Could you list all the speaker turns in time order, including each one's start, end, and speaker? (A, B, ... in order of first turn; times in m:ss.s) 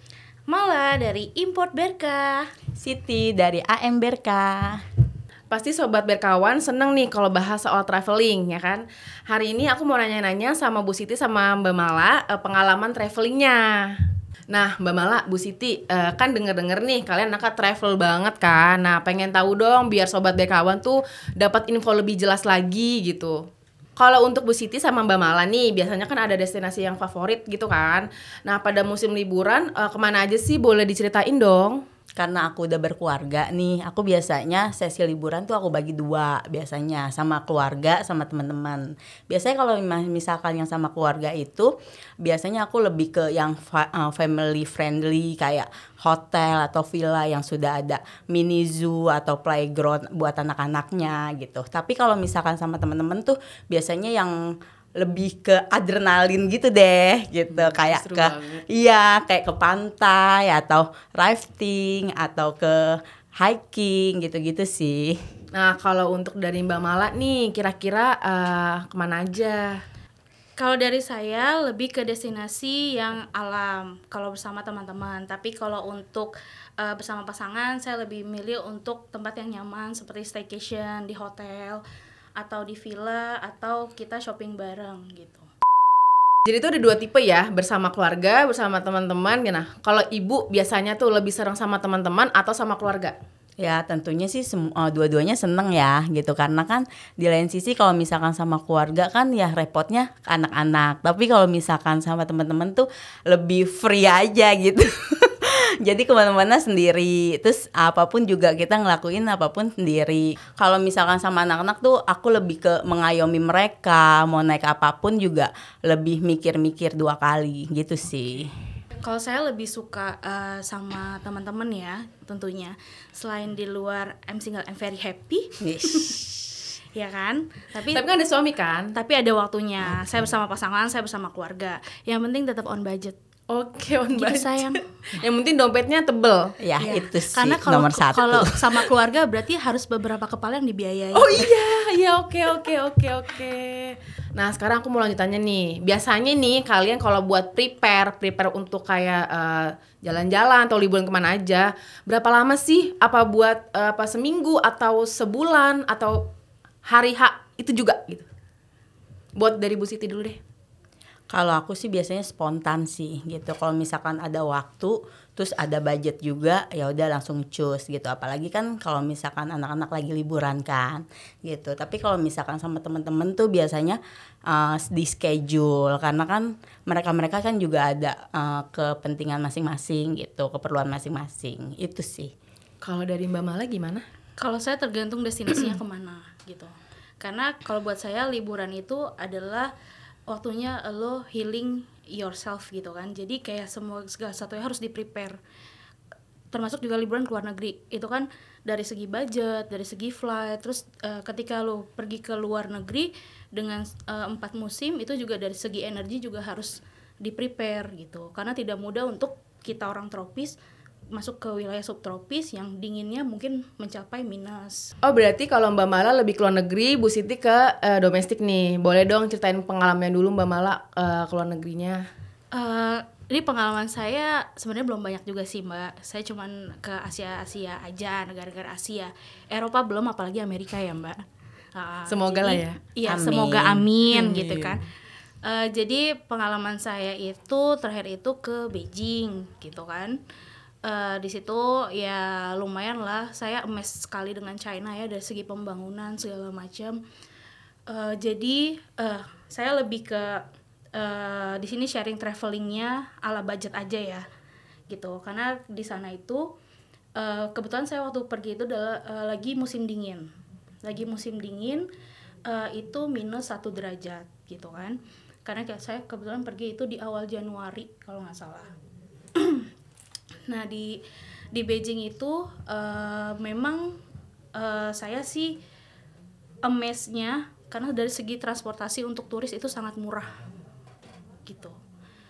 0:00.5-0:02.5 A
0:02.8-0:04.8 B
0:05.5-0:14.0 C
0:14.5-0:23.4 C
0:24.0-0:31.8 C
0:32.2-0:41.7 B
0:42.2-0:54.4 B
0:55.0-1:05.2 B
0:57.5-0:58.6 C
1:05.5-1:09.8 C
1:10.6-1:21.8 A
1:22.4-1:25.5 A
1:26.5-1:33.2 C
1:33.6-1:58.5 B
1:59.0-2:08.0 A
2:05.6-2:06.2 B
2:07.9-2:08.9 C
2:08.9-2:13.2 A
2:13.5-2:16.5 C
2:14.1-2:14.8 A
2:16.6-2:18.9 B
2:16.8-2:21.4 A
2:21.2-2:36.3 C
2:36.9-2:38.3 C
2:39.4-2:40.4 C
2:41.3-3:02.3 B
3:02.8-3:04.0 C
3:04.4-3:09.7 A
3:10.3-3:15.4 A
3:16.5-3:30.6 A
3:31.1-3:34.9 A
3:35.0-3:42.0 C
3:42.5-3:51.2 A
3:51.7-3:54.8 A
3:52.1-3:52.8 C
3:53.1-3:53.9 B
3:54.1-3:54.8 C
3:55.4-4:00.2 A
4:00.8-4:07.0 A
4:07.9-4:10.4 A
4:11.0-4:14.2 A
4:14.9-4:16.5 A
4:17.2-4:20.3 A
4:20.8-4:21.9 A
4:22.5-4:28.7 A
4:29.4-4:29.7 A
4:30.5-4:31.0 A
4:31.5-4:34.0 A
4:34.6-4:35.6 A
4:36.6-4:40.3 A
4:41.4-4:41.8 A